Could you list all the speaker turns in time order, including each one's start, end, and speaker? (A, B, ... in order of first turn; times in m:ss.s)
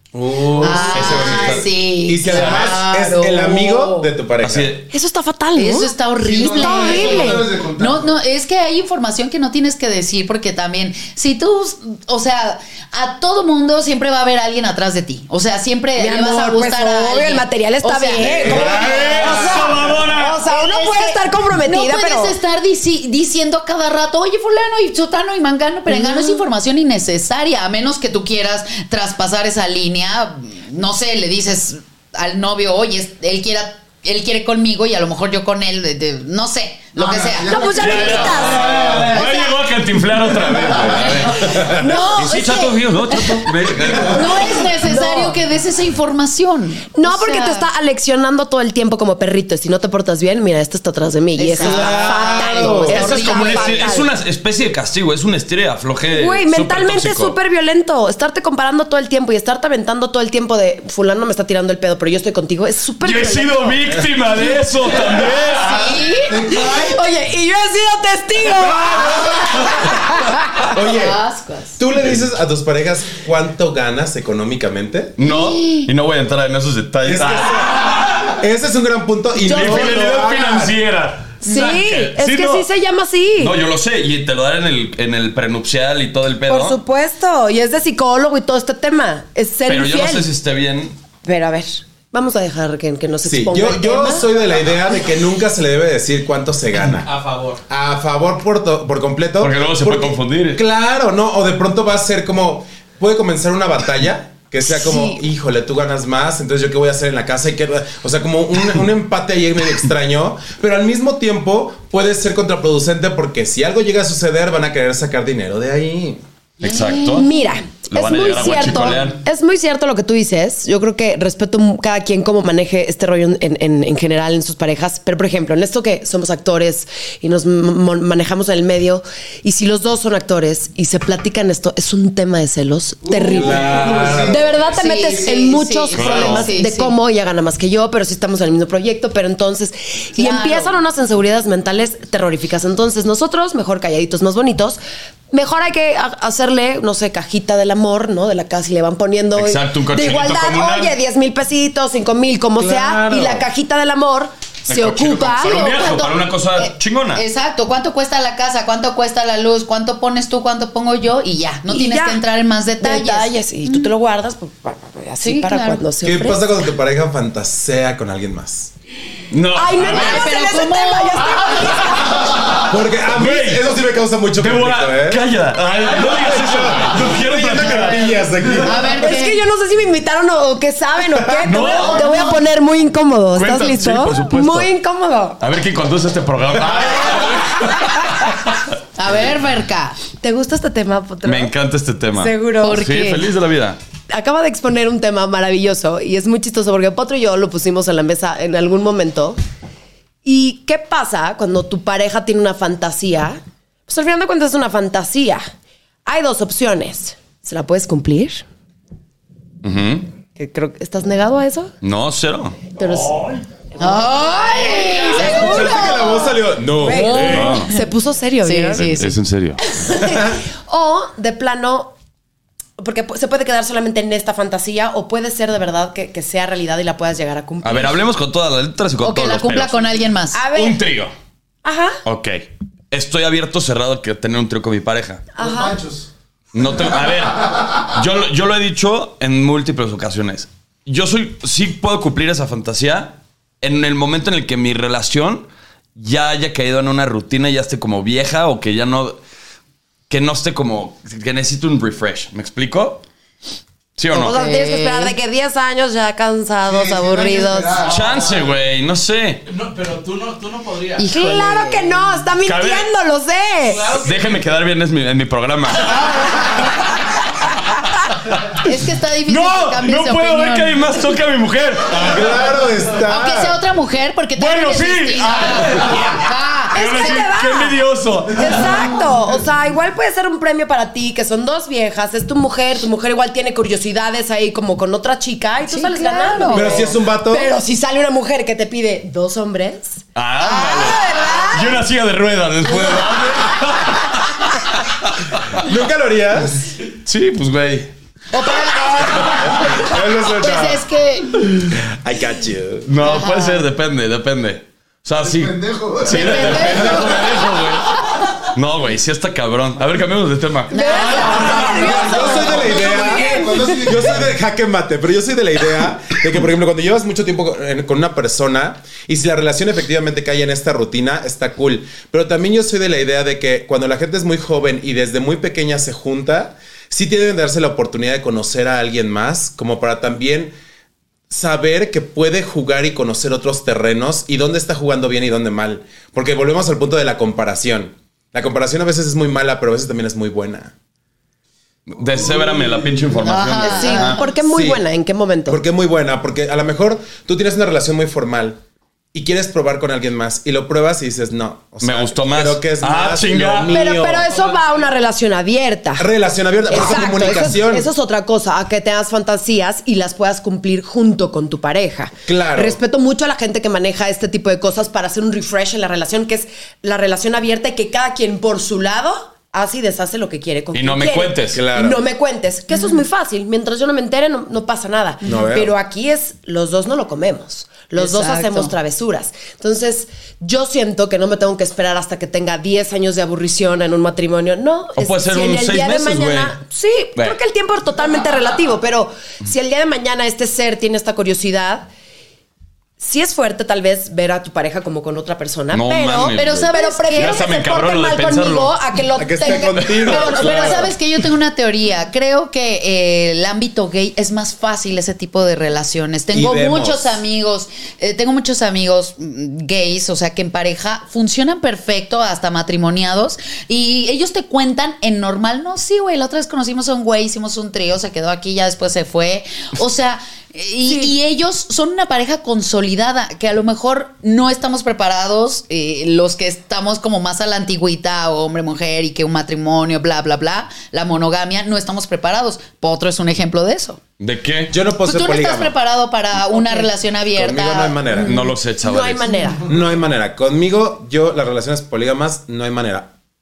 0:00.1-0:04.8 A
0:00.6-0:04.1 B
0:00.8-0:01.7 C
0:02.3-0:02.8 C
0:04.4-0:04.8 C
0:04.9-0:05.9 D
0:05.6-0:18.7 B
0:06.2-0:08.2 E
0:06.5-0:07.5 D
0:16.0-0:22.4 D
0:18.2-0:19.6 A
0:18.5-0:20.4 C
0:19.2-0:19.5 B
0:20.4-0:38.5 B
0:25.9-0:26.4 D
0:36.9-0:39.1 E
0:37.5-0:39.5 D
0:37.8-0:44.6 C
0:39.1-0:39.5 B
0:40.7-0:41.8 A
0:40.9-0:42.7 B
0:41.6-0:43.5 D
0:44.1-0:47.7 B
0:44.1-0:45.4 D
0:46.9-0:54.1 D
0:51.4-0:54.0 B
0:51.6-0:53.2 A
0:52.9-0:57.4 C
0:56.1-1:03.8 D
1:03.0-1:06.0 C
1:05.7-1:07.0 B
1:06.1-1:07.1 E
1:06.6-1:10.7 D
1:08.8-1:09.7 A
1:10.6-1:11.8 B
1:10.7-1:11.2 A
1:11.8-1:15.1 A
1:15.2-1:18.3 C
1:15.2-1:15.9 B
1:17.0-1:20.8 A
1:19.4-1:20.1 D
1:19.5-1:22.7 C
1:21.4-1:23.6 D
1:21.4-1:21.8 B
1:23.4-1:26.8 C
1:26.5-1:30.3 D
1:29.6-1:31.0 C
1:31.2-1:34.3 D
1:33.2-1:37.1 A
1:37.0-1:37.6 F
1:37.7-1:56.2 A
1:39.4-1:40.6 C
1:44.7-1:45.2 B
1:56.6-1:57.3 C
1:56.6-2:24.8 D
1:57.9-1:59.2 C
2:13.0-2:15.2 E
2:13.3-2:14.6 A
2:14.7-2:17.0 B
2:15.9-2:16.5 C
2:20.2-2:20.8 B
2:25.3-2:35.7 D
2:29.4-2:30.9 C
2:32.6-2:33.4 A
2:34.7-2:37.2 C
2:35.4-2:43.9 B
2:41.7-2:42.2 D
2:42.8-2:46.4 D
2:45.2-2:45.8 B
2:46.0-2:48.7 A
2:49.3-2:50.4 C
2:49.5-2:52.3 D
2:49.8-2:52.0 B
2:52.7-2:55.2 A
2:53.1-2:53.7 C
2:54.4-2:58.0 C
2:55.9-2:58.9 A
2:58.2-2:58.5 E
2:58.6-2:59.4 B
2:58.8-3:05.4 D
3:01.4-3:02.3 C
3:01.6-3:02.5 E
3:03.3-3:04.7 C
3:05.4-3:08.3 C
3:06.7-3:08.3 D
3:09.0-3:10.0 B
3:10.2-3:11.5 D
3:11.2-3:13.8 C
3:12.1-3:13.2 D
3:12.6-3:13.3 B
3:14.1-3:19.4 D
3:20.2-3:25.4 D
3:26.1-3:28.4 D
3:29.6-3:30.1 C
3:30.4-3:31.7 D
3:31.8-3:32.6 C
3:32.8-3:39.0 D
3:33.8-3:36.1 B
3:35.2-3:37.6 A
3:36.8-3:37.9 B
3:37.1-3:37.7 C
3:38.4-3:39.2 B
3:38.7-3:39.6 C
3:39.7-3:41.9 D
3:42.8-3:48.0 D
3:47.6-3:49.9 C
3:49.0-3:50.4 B
3:50.3-3:50.9 D
3:50.5-3:51.1 C
3:51.6-3:52.0 D
3:52.0-3:55.2 C
3:55.4-3:55.8 D
3:55.4-3:56.1 E
3:56.5-4:09.2 C
3:56.9-3:57.9 E
4:10.1-4:13.0 C
4:14.0-4:14.4 C
4:14.1-4:17.9 D
4:14.2-4:15.2 B
4:16.6-4:18.2 E
4:17.8-4:18.3 F
4:17.9-4:19.4 C
4:19.4-4:21.1 F
4:21.0-4:22.2 B
4:21.1-4:23.9 D
4:22.4-4:22.9 C
4:23.6-4:24.5 F
4:24.0-4:26.7 C
4:28.6-4:30.8 B
4:29.3-4:32.3 C
4:31.9-4:33.6 A
4:33.1-4:37.3 B
4:34.4-4:36.2 C
4:36.7-4:37.8 D
4:36.7-4:39.0 C
4:38.3-4:51.8 D
4:45.7-4:46.9 B
4:46.5-4:47.5 A
4:50.2-4:54.5 C
4:55.0-4:55.6 C
4:55.6-4:56.6 A
4:57.0-4:57.9 C
4:58.3-4:59.5 D
4:59.3-5:00.8 A
5:00.3-5:01.5 B
5:01.7-5:02.9 A
5:02.8-5:07.9 C
5:03.0-5:03.7 B
5:05.2-5:07.2 E
5:06.1-5:07.2 B
5:08.4-5:11.0 C
5:10.7-5:12.6 B
5:10.7-5:13.8 D
5:11.0-5:14.3 E
5:11.7-5:30.5 A
5:31.3-5:40.7 A
5:41.9-5:44.2 C
5:43.2-5:44.2 B
5:43.6-5:45.6 D
5:44.5-5:44.8 A
5:45.5-5:48.6 A
5:49.1-5:54.3 A
5:51.8-5:53.8 C
5:53.7-5:56.1 D
5:54.2-5:55.0 F
5:56.0-5:57.9 A
5:56.7-6:31.9 D
6:02.3-6:02.8 A
6:10.7-6:11.6 C
6:11.5-6:12.0 A
6:12.7-6:13.0 B
6:15.2-6:15.7 A
6:18.0-6:18.7 B
6:25.0-6:26.6 C
6:33.0-6:40.9 D
6:35.7-6:38.8 C
6:36.3-6:37.4 B
6:39.2-6:40.9 A
6:39.8-6:40.1 C
6:40.0-7:14.0 B
6:46.3-6:47.2 A
7:00.8-7:01.1 D
7:14.2-7:14.8 C
7:14.7-7:15.8 A
7:15.0-7:18.5 B
7:16.5-7:16.9 D
7:17.3-7:18.4 A
7:18.2-7:19.4 C
7:18.8-7:19.7 D
7:19.6-7:23.1 A